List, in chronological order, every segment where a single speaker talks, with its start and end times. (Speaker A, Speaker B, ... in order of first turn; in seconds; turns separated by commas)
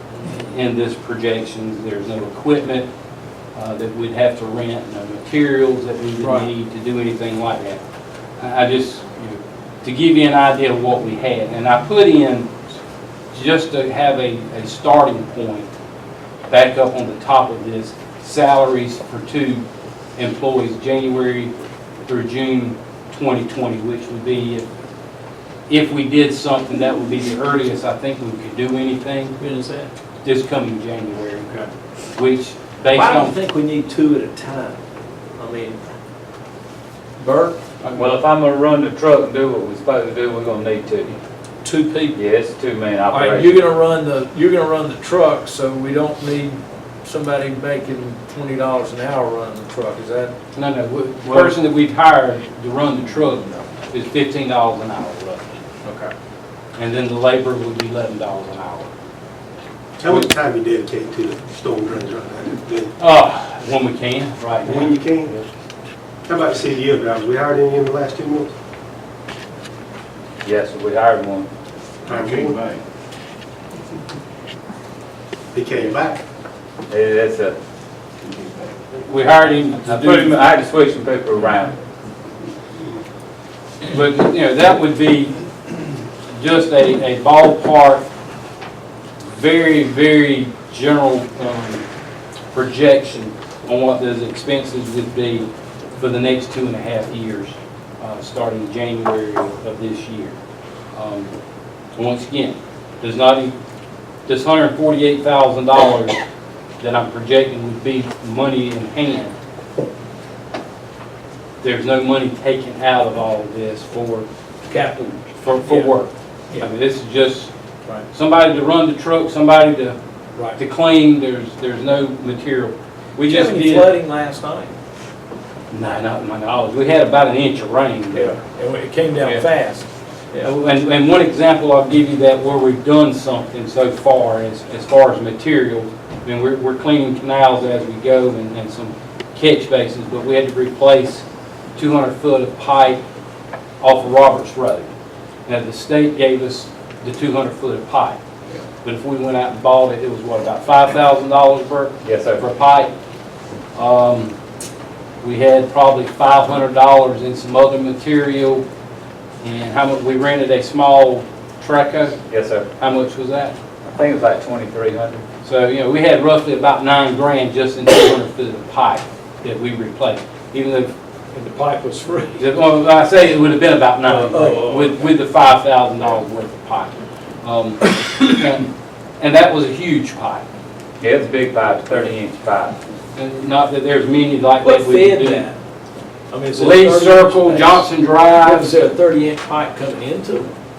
Speaker A: 0.4-2.9, Speaker A: 3.5-7.8, Speaker B: 6.2-6.5, Speaker A: 8.4-12.6, Speaker A: 13.3-15.7, Speaker A: 16.5-19.6, Speaker A: 20.2-21.5, Speaker A: 22.1-24.6, Speaker A: 25.7-29.4, Speaker B: 29.4-29.9, Speaker A: 30.2-31.5, Speaker A: 32.1-33.3, Speaker B: 32.9-34.8, Speaker B: 35.4-35.8, Speaker B: 37.2-38.1, Speaker C: 37.9-41.2, Speaker B: 41.6-42.2, Speaker C: 42.1-43.7, Speaker B: 43.1-50.3, Speaker A: 50.5-55.4, Speaker B: 51.3-51.5, Speaker B: 55.8-56.1, Speaker A: 56.8-58.9, Speaker D: 60.0-62.9, Speaker A: 63.0-64.9, Speaker D: 64.6-65.5, Speaker D: 66.2-68.5, Speaker C: 70.4-71.5, Speaker D: 72.0-72.7, Speaker D: 75.5-76.2, Speaker C: 76.9-77.5, Speaker A: 79.0-80.4, Speaker C: 79.8-81.8, Speaker A: 83.8-85.4, Speaker A: 86.3-88.1, Speaker A: 89.3-91.8, Speaker A: 92.5-100.4, Speaker A: 100.9-101.3, Speaker A: 102.0-103.5, Speaker A: 104.3-106.2, Speaker A: 106.8-109.3, Speaker A: 111.6-114.3, Speaker B: 114.7-115.9, Speaker A: 115.4-117.5, Speaker A: 118.1-120.0, Speaker A: 120.5-123.9, Speaker B: 123.2-124.7, Speaker A: 125.7-128.3, Speaker B: 128.1-130.5, Speaker A: 130.4-143.0, Speaker A: 143.8-144.9, Speaker A: 145.4-148.2, Speaker A: 148.8-152.9, Speaker C: 152.0-152.4, Speaker A: 153.7-154.3, Speaker A: 155.2-158.6, Speaker A: 159.4-162.2, Speaker C: 162.3-162.7, Speaker A: 162.8-163.6, Speaker C: 163.8-165.2, Speaker A: 165.4-170.9, Speaker B: 171.3-172.5, Speaker A: 172.4-180.4, Speaker B: 174.1-175.1, Speaker C: 181.0-182.8, Speaker A: 183.1-185.4, Speaker B: 184.6-185.6, Speaker B: 186.3-190.5, Speaker A: 186.5-188.7